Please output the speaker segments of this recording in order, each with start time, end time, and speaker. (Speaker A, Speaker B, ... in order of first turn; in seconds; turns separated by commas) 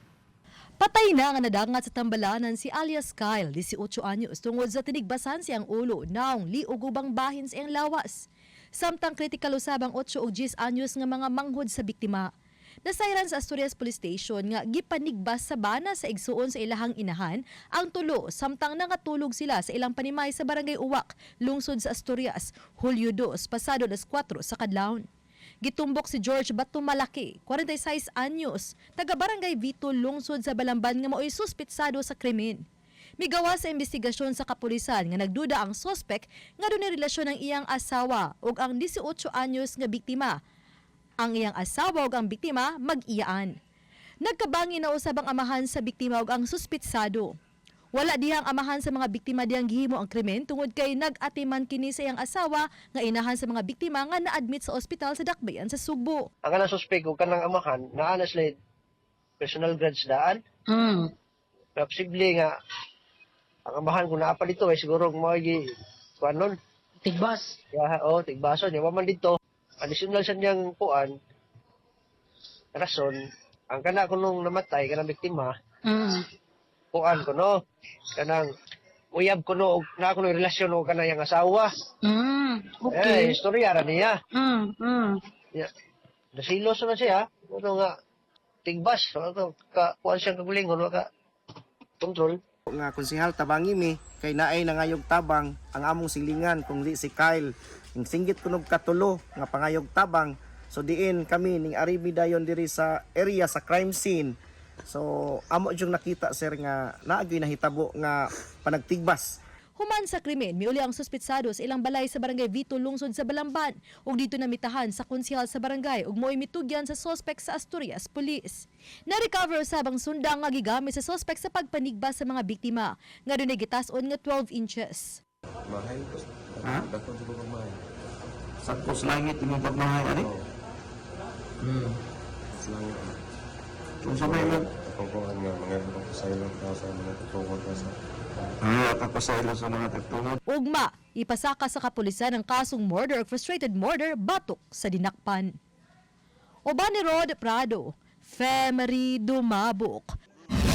Speaker A: 0.8-12.3, Speaker A: 12.8-25.0, Speaker A: 25.6-32.6, Speaker A: 33.2-40.4, Speaker A: 41.2-43.5, Speaker A: 44.2-47.3, Speaker A: 47.9-56.3, Speaker B: 56.4-58.5, Speaker B: 59.4-60.4, Speaker C: 60.7-61.1, Speaker B: 61.8-62.5, Speaker B: 63.6-65.6, Speaker B: 66.2-66.5, Speaker C: 67.0-67.6, Speaker B: 67.7-71.1, Speaker B: 72.7-73.2, Speaker B: 73.7-75.5, Speaker C: 75.9-76.2, Speaker B: 76.9-77.5, Speaker B: 78.1-78.5, Speaker B: 79.1-81.7, Speaker C: 82.0-83.4, Speaker B: 82.9-84.2, Speaker C: 84.3-85.2, Speaker B: 86.3-87.9, Speaker B: 88.6-91.1, Speaker B: 92.0-92.4, Speaker D: 92.7-104.3, Speaker D: 104.9-109.4, Speaker A: 109.8-125.2, Speaker E: 125.7-127.9, Speaker F: 126.6-126.9, Speaker F: 128.6-130.3, Speaker E: 130.0-130.5, Speaker F: 131.6-131.9, Speaker E: 132.5-133.2, Speaker F: 134.0-134.7, Speaker E: 134.1-138.0, Speaker F: 138.6-140.4, Speaker A: 140.5-145.5, Speaker A: 146.7-150.1